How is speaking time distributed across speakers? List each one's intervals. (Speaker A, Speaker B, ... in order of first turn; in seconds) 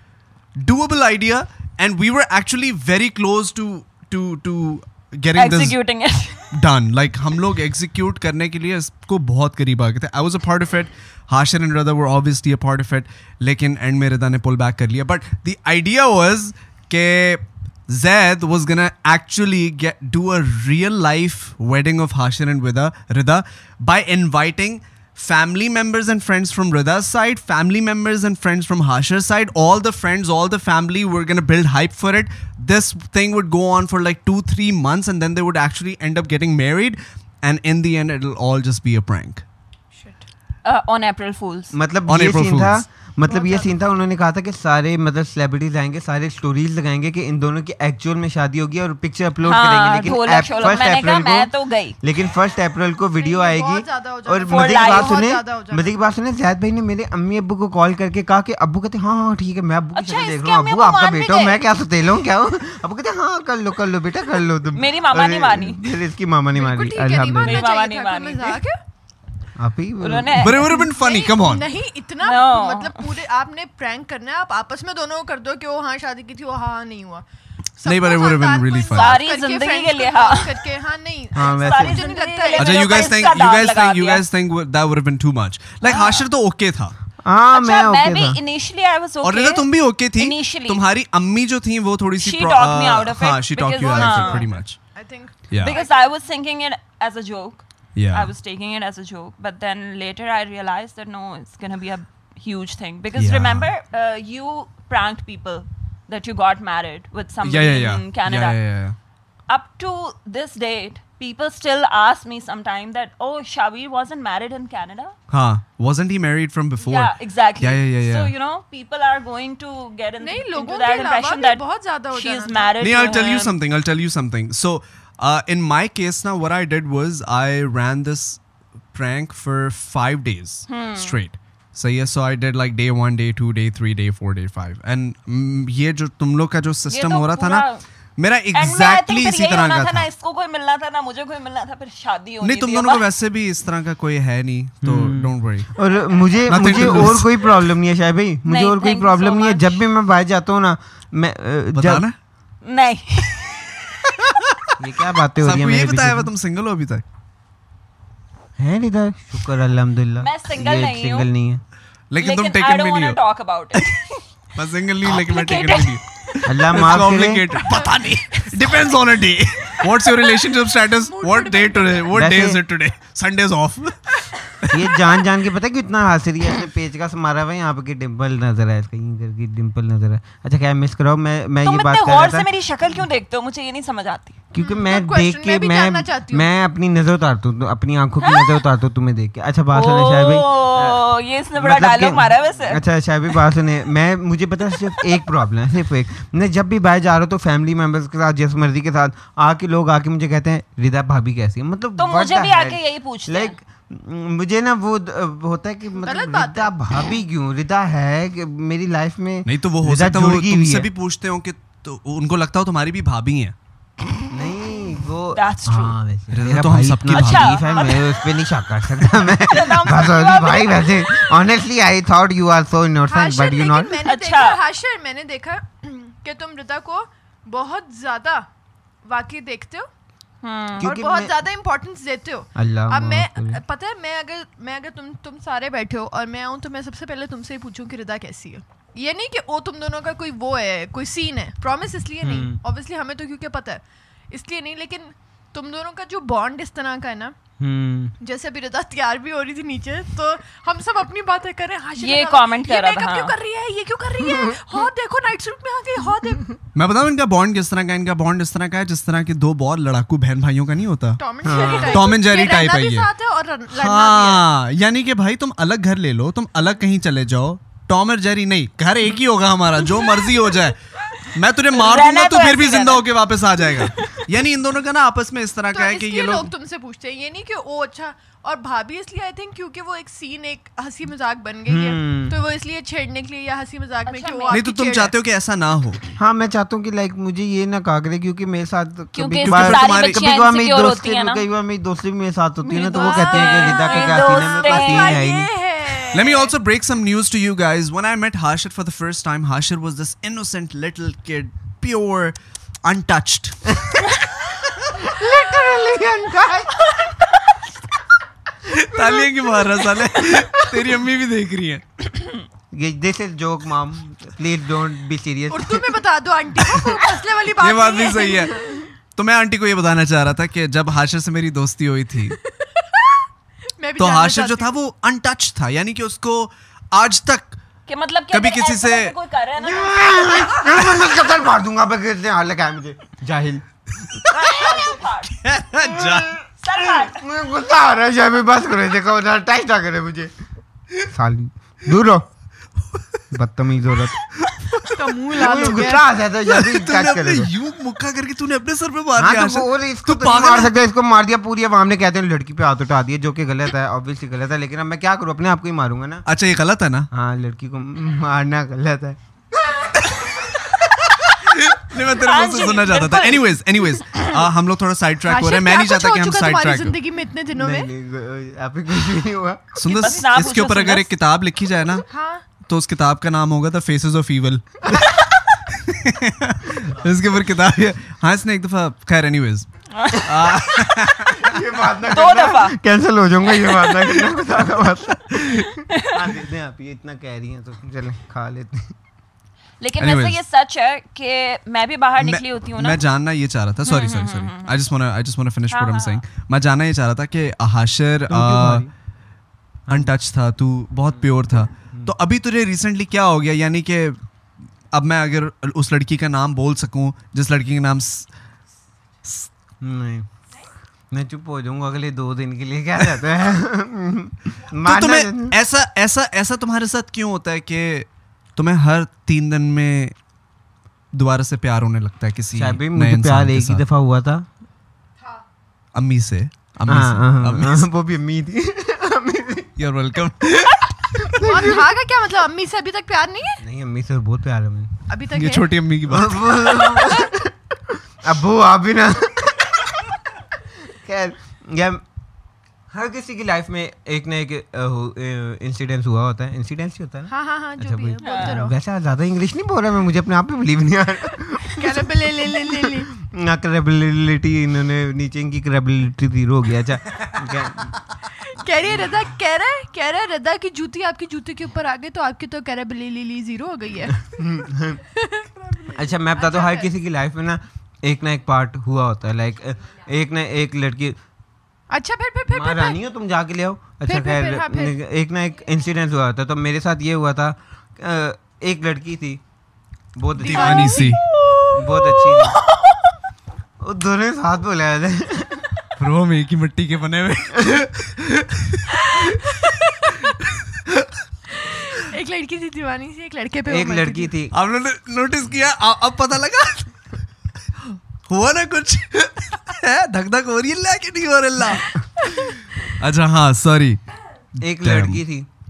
Speaker A: 0.6-5.8, 6.5-39.4, 42.1-42.9, 70.4-71.7, 77.8-79.2, 82.5-86.9, 89.2-94.8, 95.5-95.8, 98.0-98.3, 103.2-103.7, 107.4-109.0, 115.3-118.3, 122.8-128.4, 128.9-137.7, 138.2-140.1, 142.4-145.7, 146.5-147.6, 151.7-152.2, 155.4-157.0, 162.1-163.2, 163.8-164.0, 164.6-174.9, 209.5-213.5, 216.3-217.6, 256.8-263.1, 263.7-276.5, 284.5-286.0, 289.4-290.2, 296.1-303.8, 308.6-312.1, 317.6-318.6, 319.1-322.4, 324.0-327.6, 328.3-329.1, 335.3-336.4, 344.4-345.9, 346.5-350.7, 356.3-357.1, 360.0-367.0, 369.8-372.1, 372.7-381.6, 390.0-390.4, 392.2-398.9, 399.9-404.2, 404.9-408.3, 409.2-409.5, 414.8-420.1, 421.1-423.8, 425.9-427.9, 429.8-431.7, 435.3-436.9, 480.4-481.2, 486.0-491.1, 494.5-497.2, 497.8-504.0, 504.6-505.2
Speaker B: 5.3-6.5, 40.6-41.7, 49.4-52.0, 54.5-55.2, 59.9-61.6, 64.7-65.9, 67.4-68.6, 70.0-70.7, 72.2-73.1, 78.9-80.6, 81.4-84.2, 85.8-86.2, 87.5-90.8, 92.2-94.5, 95.6-108.6, 109.5-115.2, 116.8-123.5, 130.7-131.2, 136.9-137.8, 138.5-143.0, 148.5-149.8, 152.6-153.8, 160.2-161.3, 162.2-164.1, 165.3-165.9, 181.6-184.4, 188.2-188.6, 189.7-192.8, 202.0-203.6, 215.3-216.0, 217.1-218.3, 219.1-221.3, 224.0-224.6, 230.4-230.9, 252.0-253.3, 271.7-273.1, 284.1-284.6, 289.1-291.4, 292.6-295.2, 327.9-330.8, 334.3-335.4, 336.6-337.2, 362.1-363.5, 369.8-371.1, 379.9-380.5, 382.1-382.8, 385.9-386.1, 389.8-393.0, 393.9-394.8, 395.7-396.2, 448.2-448.6
Speaker C: 40.0-40.2, 43.3-43.7, 50.5-50.8, 53.2-55.9, 66.6-68.8, 70.6-77.2, 77.8-83.0, 93.9-96.1, 120.2-123.2, 169.9-172.1, 184.6-186.5, 206.0-206.7, 223.1-228.5, 229.1-229.9, 230.8-247.3, 248.2-256.6, 261.2-264.5, 275.7-285.1, 292.9-296.5, 315.5-318.8, 322.6-323.2, 323.8-324.7, 344.9-346.1, 365.3-367.9, 372.1-372.4, 431.4-433.6, 435.1-435.8, 437.0-437.3, 447.3-448.8, 451.7-453.1, 458.4-464.3, 465.1-466.9, 471.9-473.0, 474.1-475.0, 480.4-481.2, 489.2-490.3, 491.6-494.3
Speaker D: 41.7-67.7, 69.6-70.5, 81.3-82.0, 87.2-88.4, 144.8-152.0, 154.8-156.3, 158.6-161.6, 166.5-167.6, 172.1-172.6, 174.7-182.5, 184.5-191.0, 191.6-210.9, 214.3-224.1, 230.8-231.4, 232.6-233.6, 242.2-242.6, 247.6-248.1, 254.2-254.8, 261.4-262.1, 281.7-282.4, 286.2-295.5, 303.7-304.2, 304.9-306.9, 312.7-316.0, 316.6-317.1, 329.6-334.8, 335.8-340.3, 341.1-342.3, 343.3-344.2, 345.3-347.5, 349.2-356.3, 357.1-359.2, 367.6-369.8, 380.8-389.0, 398.3-398.9, 409.8-410.3, 411.1-415.6, 422.5-424.5, 426.9-429.7, 431.2-431.8, 433.6-435.0, 436.1-440.2, 440.8-442.0, 442.9-457.9, 464.2-465.0, 465.9-471.2, 472.5-479.4, 480.1-481.1, 481.7-482.6, 483.8-485.7, 493.7-494.5, 504.6-505.5